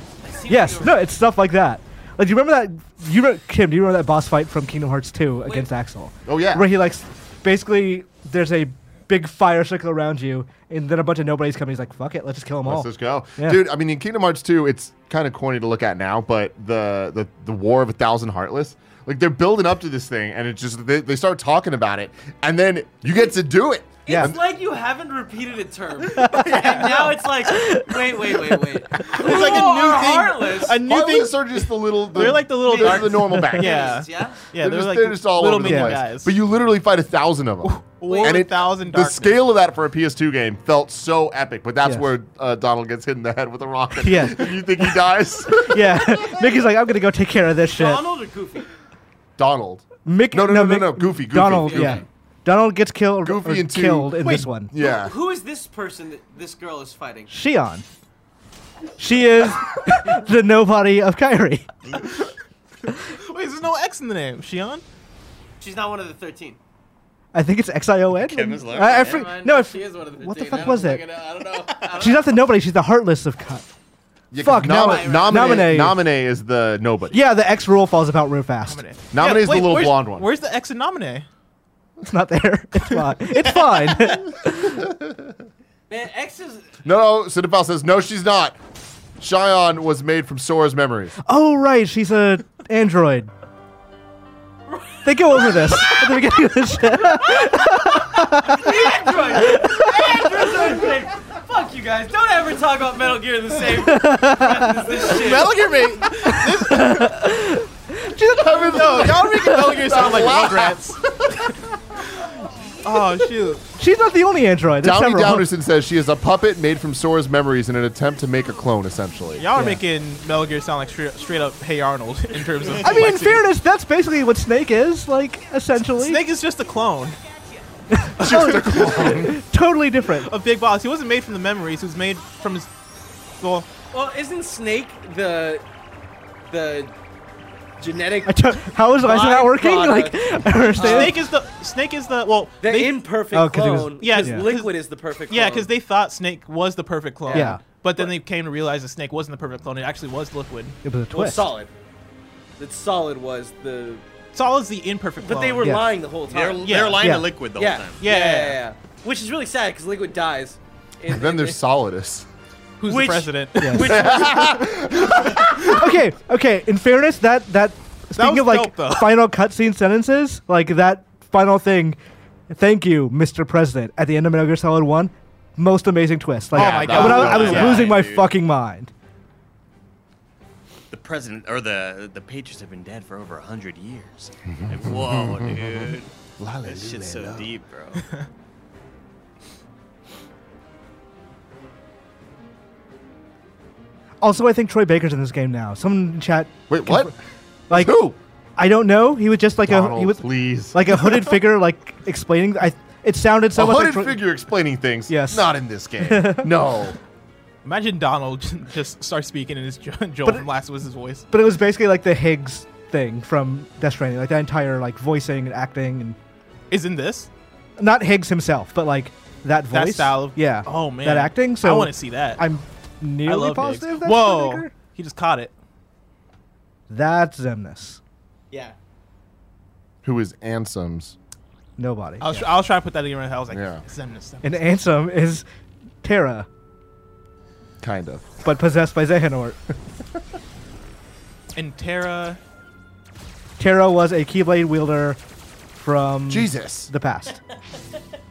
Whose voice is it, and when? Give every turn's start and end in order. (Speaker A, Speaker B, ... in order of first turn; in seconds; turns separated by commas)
Speaker A: 0.2-1.1, Speaker B: 0.5-13.6, Speaker C: 6.2-6.7, Speaker C: 12.6-24.4, Speaker B: 24.1-24.3, Speaker A: 24.1-30.8, Speaker D: 26.3-27.2, Speaker B: 27.5-27.8, Speaker D: 29.0-36.4, Speaker C: 30.7-46.4, Speaker A: 32.1-34.4, Speaker B: 35.6-36.0, Speaker D: 37.6-39.4, Speaker A: 38.0-38.5, Speaker B: 41.8-42.1, Speaker B: 44.0-44.9, Speaker B: 45.5-48.0, Speaker A: 47.7-48.7, Speaker C: 49.4-52.0, Speaker B: 50.0-54.7, Speaker A: 51.6-52.0, Speaker C: 53.2-55.1, Speaker A: 54.8-57.3, Speaker B: 57.3-57.8, Speaker B: 59.0-61.7, Speaker D: 63.0-64.8, Speaker A: 65.6-66.6, Speaker B: 67.3-71.0, Speaker E: 68.1-69.3, Speaker A: 68.8-72.3, Speaker B: 72.0-73.7, Speaker C: 74.3-77.2, Speaker B: 74.4-76.0, Speaker A: 74.6-75.7, Speaker B: 77.1-78.8, Speaker D: 78.7-81.3, Speaker C: 79.1-80.3, Speaker B: 82.0-84.8, Speaker C: 84.8-85.1, Speaker A: 85.9-86.7, Speaker C: 86.8-88.6, Speaker C: 89.2-91.1, Speaker B: 91.2-93.3, Speaker A: 94.7-96.3, Speaker B: 95.0-100.1, Speaker A: 96.9-105.7, Speaker B: 103.8-104.7, Speaker D: 104.9-107.1, Speaker B: 106.2-109.1, Speaker C: 108.3-111.5, Speaker D: 108.7-110.9, Speaker D: 112.8-113.6, Speaker B: 113.8-115.5, Speaker C: 114.8-119.5, Speaker D: 119.4-123.4, Speaker B: 119.5-119.8, Speaker B: 122.8-126.2, Speaker D: 125.8-127.2, Speaker B: 127.9-130.3, Speaker C: 128.2-129.4, Speaker D: 130.0-132.7, Speaker D: 133.4-133.7, Speaker A: 133.9-135.6, Speaker A: 136.5-136.9, Speaker A: 137.8-141.2, Speaker B: 138.2-141.2, Speaker D: 140.8-143.0, Speaker A: 142.6-145.7, Speaker B: 143.3-144.5, Speaker D: 144.0-144.7, Speaker D: 145.3-150.8, Speaker A: 147.2-148.1, Speaker B: 147.3-147.6, Speaker B: 150.8-151.5, Speaker A: 151.1-151.7, Speaker A: 152.6-154.0, Speaker D: 154.3-155.7, Speaker A: 155.2-156.8, Speaker B: 155.6-155.9, Speaker E: 156.3-158.0, Speaker D: 156.6-157.0, Speaker B: 157.0-157.3, Speaker A: 157.6-161.6, Speaker D: 158.0-158.6, Speaker C: 161.1-162.3, Speaker D: 162.8-164.1, Speaker A: 162.8-165.1, Speaker B: 163.6-163.9, Speaker C: 163.8-165.8, Speaker B: 165.6-172.0, Speaker D: 168.2-169.2, Speaker B: 172.5-178.9, Speaker C: 176.5-177.9, Speaker D: 176.5-177.9, Speaker E: 176.6-178.3, Speaker E: 180.9-186.1, Speaker C: 184.5-187.5, Speaker E: 186.6-188.0, Speaker B: 194.2-197.1, Speaker C: 196.7-197.1, Speaker B: 197.7-198.0, Speaker C: 197.7-198.2, Speaker B: 198.6-204.2, Speaker C: 199.6-200.8, Speaker C: 203.5-207.0, Speaker B: 205.1-205.5, Speaker B: 206.0-206.5, Speaker D: 207.6-211.2, Speaker B: 211.3-216.2, Speaker D: 216.7-217.3, Speaker B: 217.8-224.7, Speaker D: 219.7-222.4, Speaker D: 223.2-225.5, Speaker B: 226.9-228.0, Speaker A: 228.5-228.8, Speaker C: 230.0-231.1, Speaker B: 231.8-232.4, Speaker D: 232.2-234.6, Speaker C: 233.5-233.8, Speaker B: 234.4-235.4, Speaker B: 236.0-236.5, Speaker C: 237.8-238.3, Speaker B: 238.4-239.6, Speaker D: 241.6-242.4, Speaker B: 243.6-245.2, Speaker B: 245.7-247.4, Speaker C: 246.3-246.9